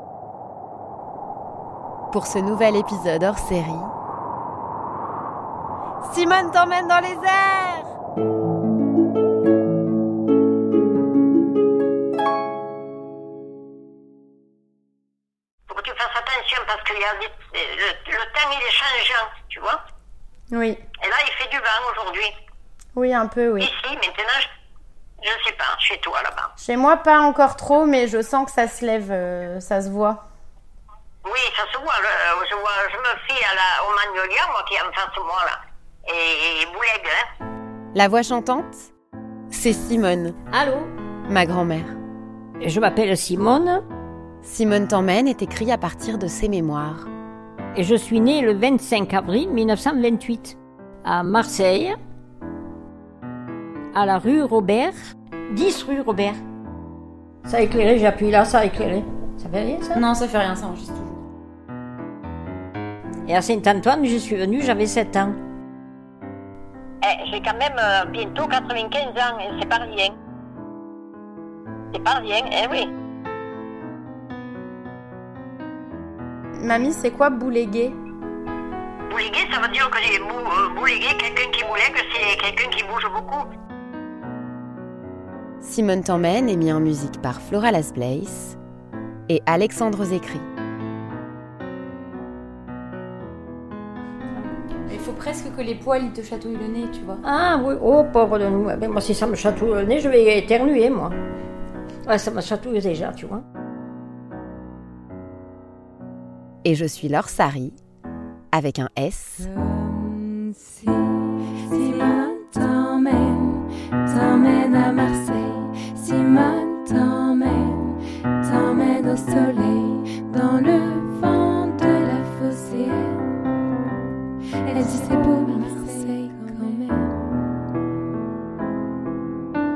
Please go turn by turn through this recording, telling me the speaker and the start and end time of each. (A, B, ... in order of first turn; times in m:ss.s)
0:02.1-0:03.9 A
0:06.0-0:07.9 A
0:15.7-0:19.8 B
0:20.5-0:20.8 C
0:21.0-0:22.3 B
0:23.0-0:23.7 C
0:23.6-0:24.5 B
0:25.2-0:26.5 B
0:26.6-0:30.2 C
0:31.2-0:35.6 B
0:36.1-0:37.2 B
0:37.9-0:38.9 A
0:39.5-0:40.4 A
0:40.5-0:40.9 D
0:41.3-0:42.0 A
0:42.6-0:43.8 D
0:44.4-0:47.1 A
0:47.7-0:52.0 D
0:53.9-0:55.0 D
0:55.5-0:56.4 D
0:57.5-1:00.0 D
1:03.3-1:05.4 D
1:07.0-1:10.1 B
1:11.9-1:12.9 B
1:16.6-1:18.0 C
1:19.1-1:23.5 B
1:25.6-1:28.6 A
1:29.3-1:30.5 A
1:34.9-1:37.2 C
1:37.2-1:41.2 D
1:42.1-1:43.4 D
1:46.6-1:47.8 A
1:48.5-1:49.4 A
1:49.5-1:51.1 E
1:51.7-2:03.2 E
2:04.7-2:07.2 E